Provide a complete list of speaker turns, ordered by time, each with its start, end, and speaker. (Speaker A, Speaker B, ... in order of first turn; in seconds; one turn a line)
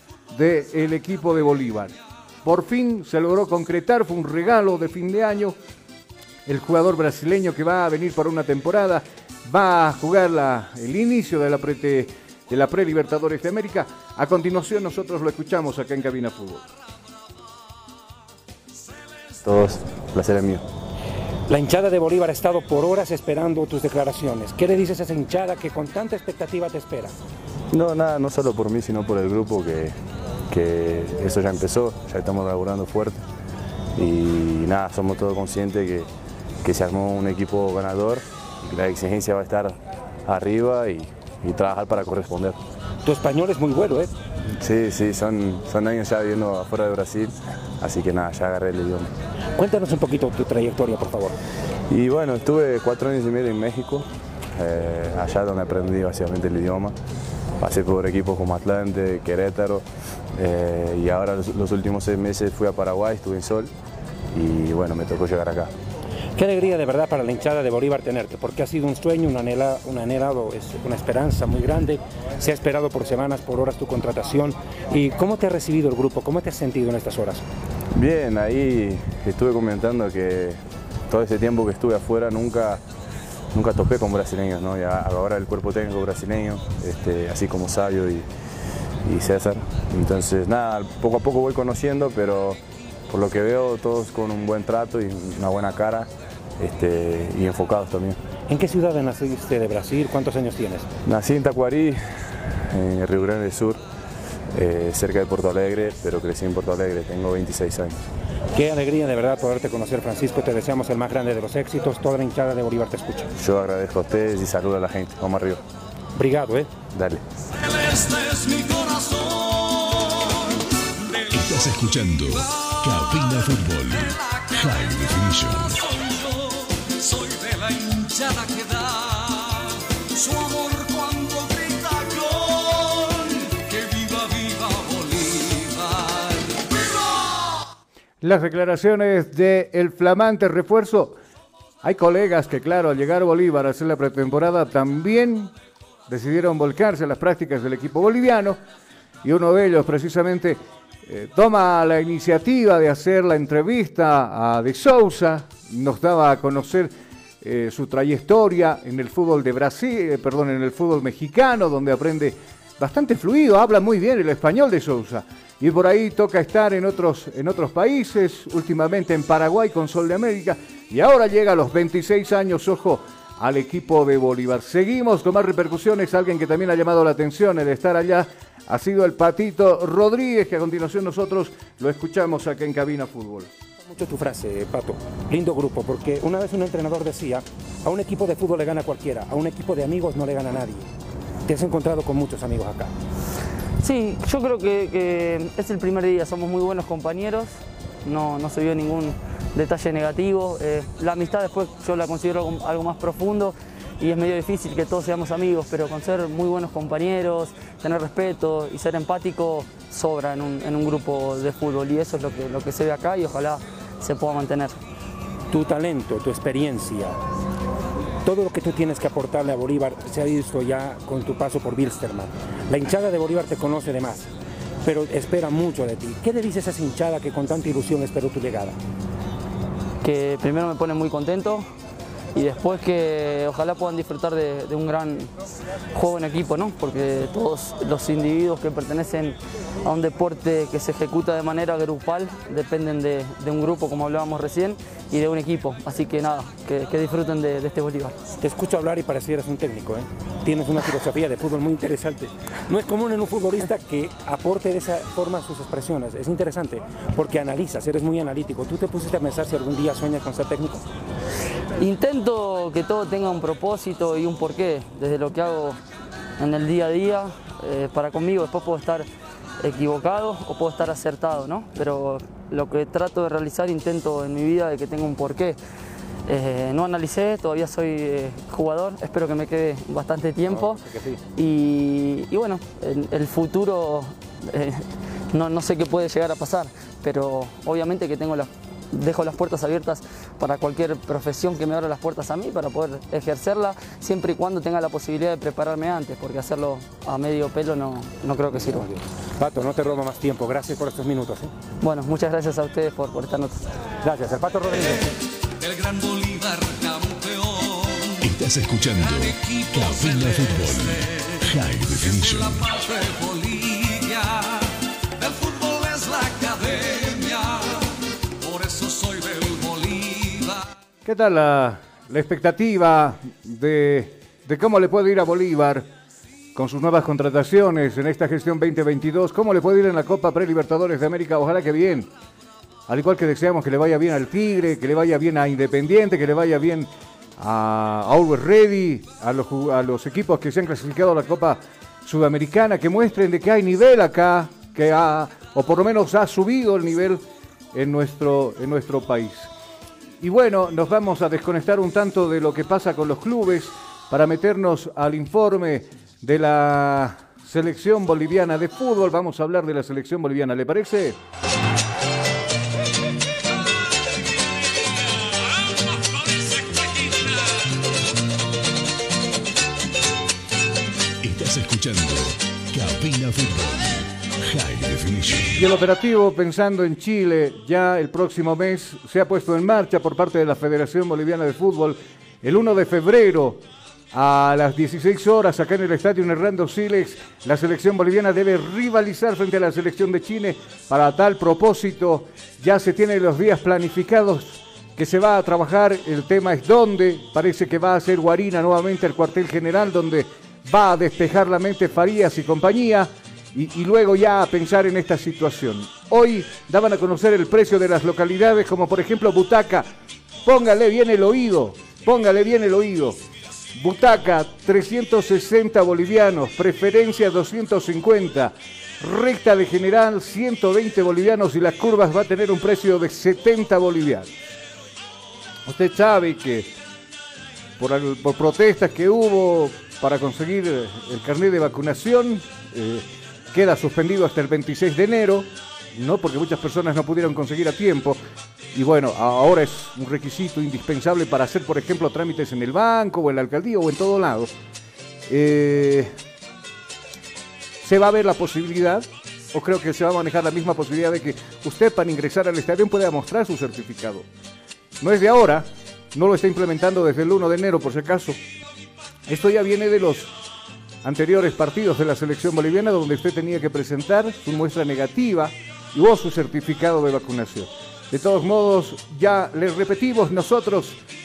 Speaker A: 0.3-5.6
Speaker A: 6.5-16.7
Speaker B: 19.4-20.6
Speaker C: 21.5-27.1
Speaker B: 27.7-30.0
Speaker B: 30.5-33.2
Speaker B: 34.0-36.1
Speaker B: 36.6-42.6
Speaker C: 43.0-44.1
Speaker B: 44.6-49.1
Speaker C: 49.5-51.4
Speaker B: 51.9-57.0
Speaker B: 57.6-63.7
Speaker B: 64.3-65.7
Speaker C: 66.3-77.4
Speaker B: 77.9-82.8
Speaker B: 83.5-88.3
Speaker B: 89.0-98.2
Speaker C: 98.5-100.9
Speaker B: 101.0-103.8
Speaker B: 104.5-108.0
Speaker C: 108.5-113.3
Speaker B: 113.4-115.6
Speaker C: 116.2-116.7
Speaker B: 116.9-117.2
Speaker D: 117.6-122.4
Speaker E: 121.3-125.8
Speaker D: 124.1-136.6
Speaker A: 138.2-141.2
Speaker A: 141.8-145.5
Speaker A: 146.1-148.6
Speaker A: 149.2-183.5
Speaker C: 183.8-190.9
Speaker C: 191.4-192.9
Speaker F: 193.8-214.8
Speaker C: 215.5-217.2
Speaker C: 218.2-224.3
Speaker C: 224.8-228.8
Speaker F: 230.0-231.7
Speaker F: 232.3-235.3
Speaker F: 235.9-248.2
Speaker C: 248.4-260.9
Speaker F: 261.8-265.8
Speaker F: 266.4-269.1
Speaker F: 269.6-275.6
Speaker F: 276.3-280.8
Speaker C: 280.5-281.2
Speaker F: 281.3-298.9
Speaker C: 298.5-301.5
Speaker F: 301.8-303.6
Speaker C: 304.0-305.0
Speaker D: 305.6-308.2
Speaker E: 308.2-312.7
Speaker D: 309.0-317.8
Speaker D: 318.4-320.6
Speaker A: 321.0-325.9
Speaker A: 326.5-332.1
Speaker A: 332.9-349.5
Speaker A: 350.2-361.2
Speaker E: 371.2-375.6
Speaker A: 375.5-409.9
Speaker A: 410.4-413.2
Speaker A: 413.7-424.3
Speaker A: 425.7-426.7
Speaker A: 427.8-438.2
Speaker A: 438.7-444.5
Speaker A: 445.3-446.1
Speaker A: 447.8-454.3
Speaker A: 455.0-458.4
Speaker A: 459.3-460.3
Speaker A: 461.0-471.0